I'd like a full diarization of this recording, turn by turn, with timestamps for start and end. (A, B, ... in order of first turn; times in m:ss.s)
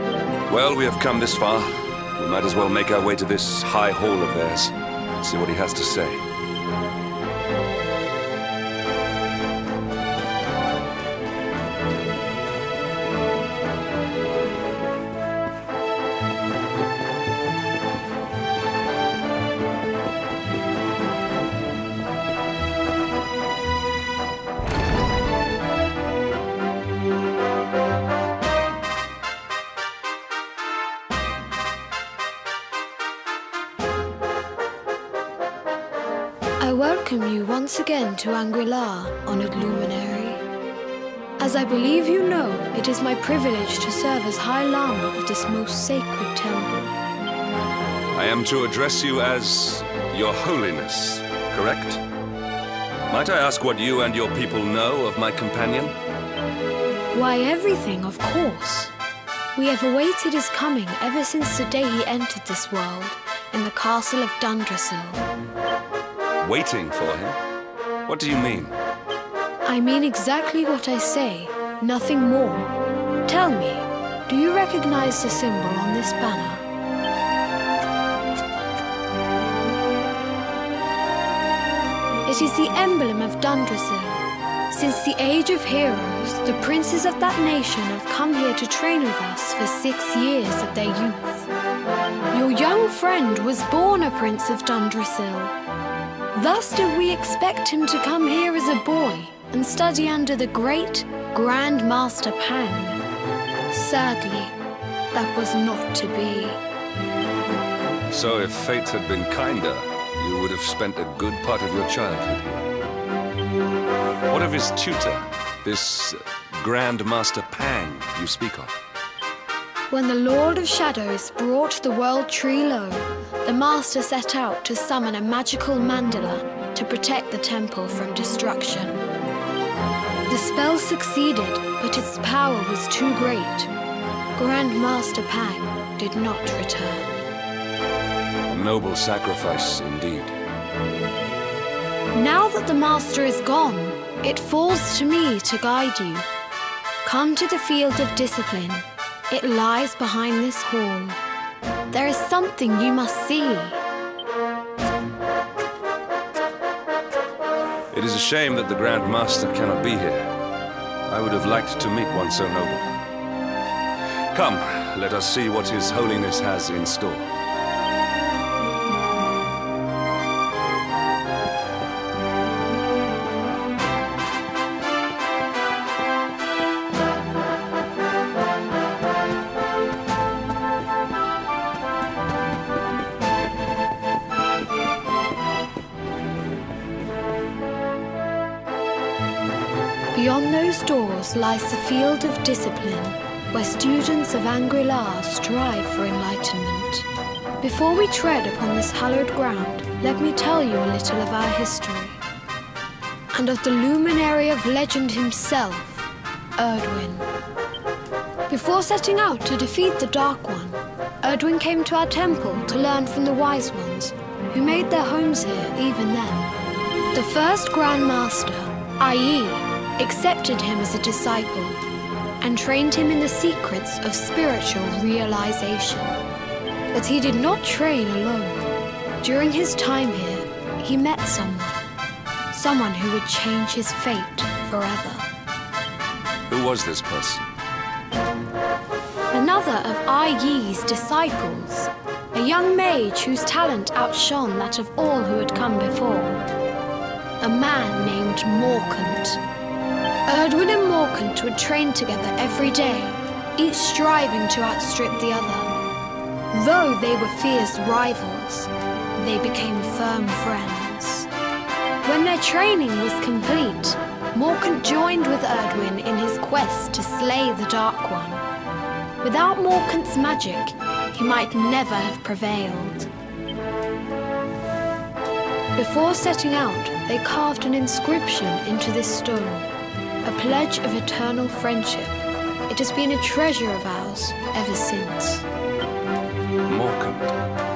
0:00.5-0:06.2 A
0:36.6-0:40.4 B
0:41.4-0:46.9 B
0:48.1-0:52.0 A
0:53.1-0:55.9 A
0:57.1-0:58.9 B
0:59.5-1:05.2 B
1:06.4-1:07.4 A
1:08.1-1:08.7 A
1:09.6-1:12.7 B
1:13.3-1:16.6 B
1:22.2-1:31.5 B
1:32.3-1:35.5 B
1:36.3-1:43.0 B
1:43.7-1:44.5 B
1:45.1-1:46.6 B
1:48.1-1:52.7 A
1:54.3-1:58.8 A
1:59.9-2:09.0 B
2:10.3-2:13.7 B
2:14.4-2:17.3 B
2:18.5-2:20.4 A
2:22.1-2:26.3 B
2:27.0-2:31.2 B
2:31.9-2:33.8 B
2:37.9-2:40.3 A
2:41.1-2:42.9 A
2:44.3-2:47.3 A
3:10.1-3:17.0 B
3:17.6-3:22.2 B
3:23.3-3:27.3 B
3:28.5-3:36.5 B
3:37.1-3:41.8 B
3:42.4-3:46.2 B
3:46.9-3:48.6 B
3:49.2-3:51.8 B
3:52.5-3:55.3 B
3:56.5-3:57.4 A
3:59.3-4:06.4 B
4:07.4-4:09.4 B
4:10.3-4:15.7 B
4:16.5-4:21.3 B
4:22.0-4:28.4 B
4:29.2-4:33.1 B
4:35.8-4:39.7 B
4:40.2-4:45.4 B
4:46.6-4:47.3 A